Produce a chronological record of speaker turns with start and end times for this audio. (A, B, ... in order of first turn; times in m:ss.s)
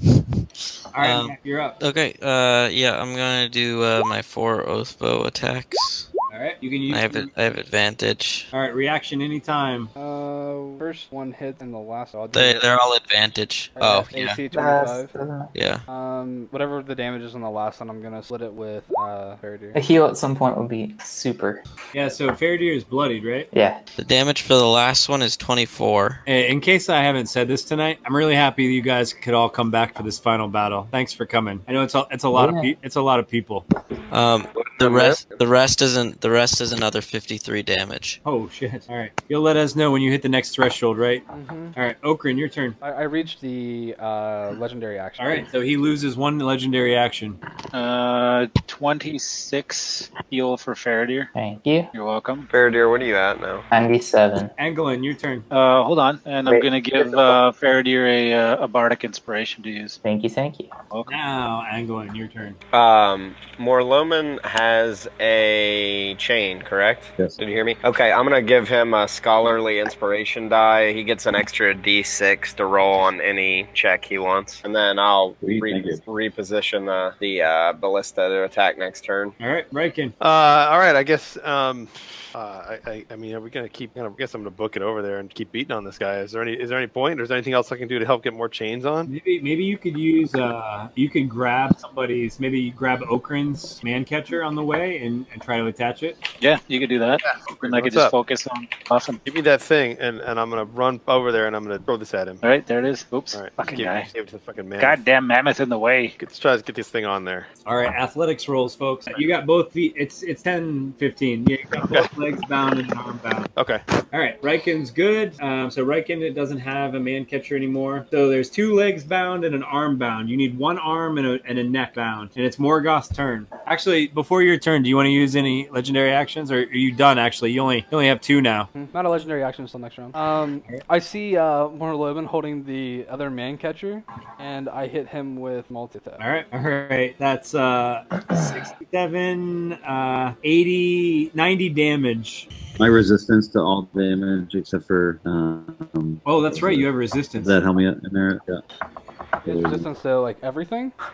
0:00.9-0:01.8 A
0:01.0-0:06.1 B
0:06.3-0:07.3 A
0:06.9-0:08.5 B
0:08.5-0:09.9 A
0:10.0-0:12.6 C
0:12.3-0:14.4 B
0:13.8-0:15.1 C
0:14.5-0:15.5 D
0:15.5-0:15.8 B
0:15.9-0:19.8 C
0:19.7-0:21.6 D
0:21.9-0:23.5 A
0:23.5-0:23.8 D
0:24.0-0:26.2 B
0:26.2-0:33.6 A
0:32.3-0:32.7 D
0:34.1-0:38.2 B
0:34.5-0:35.4 E
0:38.2-0:42.8 A
0:41.3-0:41.8 C
0:42.8-0:45.4 C
0:45.2-0:47.4 A
0:47.7-0:51.3 F
0:51.3-0:51.9 D
0:51.9-0:52.5 F
0:52.5-0:53.7 E
0:53.7-0:54.5 D
0:54.6-0:55.4 A
0:55.5-1:00.0 F
0:56.4-0:57.4 D
1:00.0-1:00.7 D
1:01.0-1:02.6 A
1:02.7-1:19.3 E
1:15.4-1:16.0 G
1:19.4-1:20.1 A
1:20.2-1:29.1 H
1:29.1-1:36.2 A
1:36.4-1:39.2 F
1:37.2-1:38.1 H
1:39.2-1:42.4 H
1:42.4-1:44.1 F
1:43.3-1:45.0 H
1:44.8-1:46.2 F
1:46.2-1:47.5 H
1:47.6-1:53.5 A
1:53.6-1:53.8 H
1:54.1-2:08.7 A
2:08.7-2:16.2 C
2:16.2-2:22.5 A
2:22.8-2:26.9 G
2:26.2-2:27.6 A
2:27.4-2:28.6 G
2:29.4-2:30.9 C
2:29.4-2:29.9 G